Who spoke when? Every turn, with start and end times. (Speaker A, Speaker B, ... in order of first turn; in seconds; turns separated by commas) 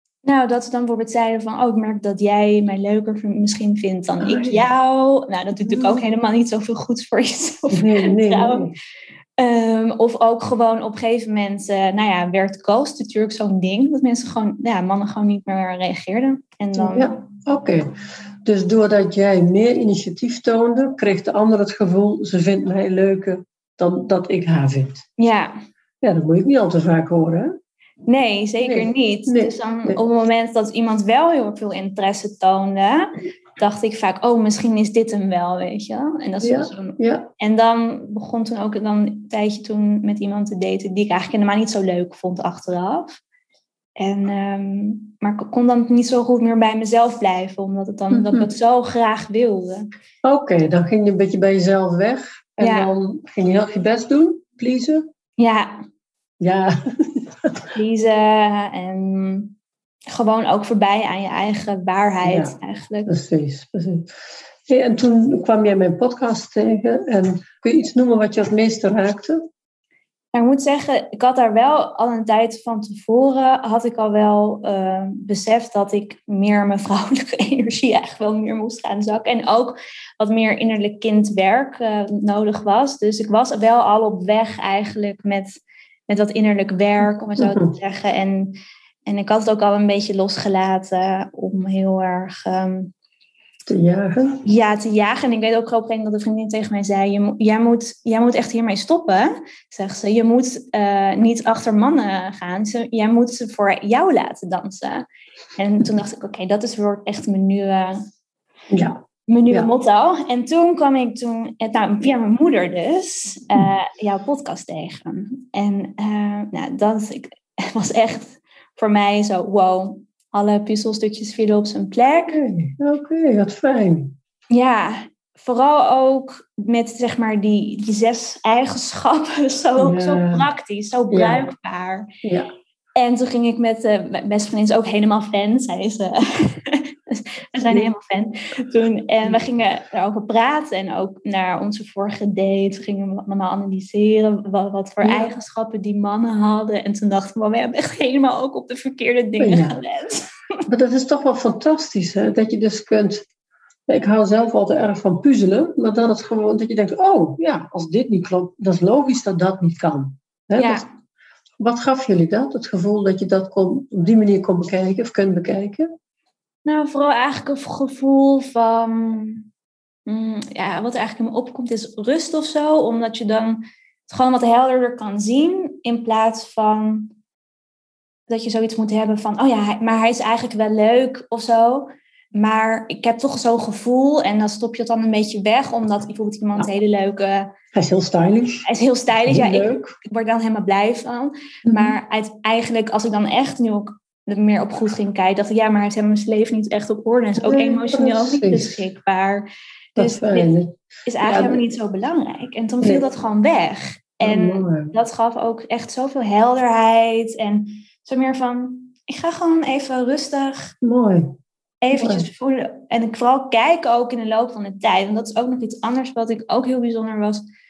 Speaker A: 0.2-8.7, Speaker B: 4.2-4.6, Speaker B: 5.6-6.0, Speaker B: 7.7-8.8, Speaker A: 9.4-17.2, Speaker B: 16.8-17.9, Speaker B: 18.4-25.1, Speaker A: 25.2-25.6, Speaker B: 26.0-27.6, Speaker A: 28.1-43.2, Speaker B: 28.6-30.0, Speaker B: 36.4-37.3, Speaker A: 44.0-49.9, Speaker B: 48.1-48.5, Speaker B: 50.2-55.1, Speaker A: 52.6-52.9, Speaker A: 55.4-55.8, Speaker B: 56.4-57.7, Speaker A: 57.8-59.5, Speaker A: 60.1-63.1, Speaker B: 62.2-64.1, Speaker B: 64.7-69.4, Speaker A: 70.3-88.5, Speaker B: 87.4-87.7, Speaker A: 89.1-92.9, Speaker B: 93.7-94.4, Speaker A: 94.4-105.0, Speaker A: 105.6-108.0, Speaker B: 108.7-109.7, Speaker A: 109.3-122.4, Speaker B: 122.3-124.2, Speaker A: 124.5-132.1, Speaker B: 129.8-130.5, Speaker B: 131.1-131.5, Speaker B: 132.2-132.5, Speaker A: 133.0-150.3, Speaker B: 145.0-145.3, Speaker B: 149.4-149.8, Speaker B: 150.7-153.3, Speaker B: 153.9-160.8, Speaker A: 160.6-160.8, Speaker B: 161.6-165.9, Speaker A: 166.7-169.5, Speaker A: 170.1-177.1, Speaker A: 178.3-187.5, Speaker B: 187.7-188.7, Speaker A: 188.7-200.5, Speaker B: 189.2-190.0, Speaker B: 191.7-192.0, Speaker B: 197.4-198.8, Speaker B: 200.0-201.6, Speaker A: 201.1-210.7, Speaker B: 204.2-205.0, Speaker B: 210.8-211.3, Speaker A: 211.8-217.4, Speaker B: 211.9-212.3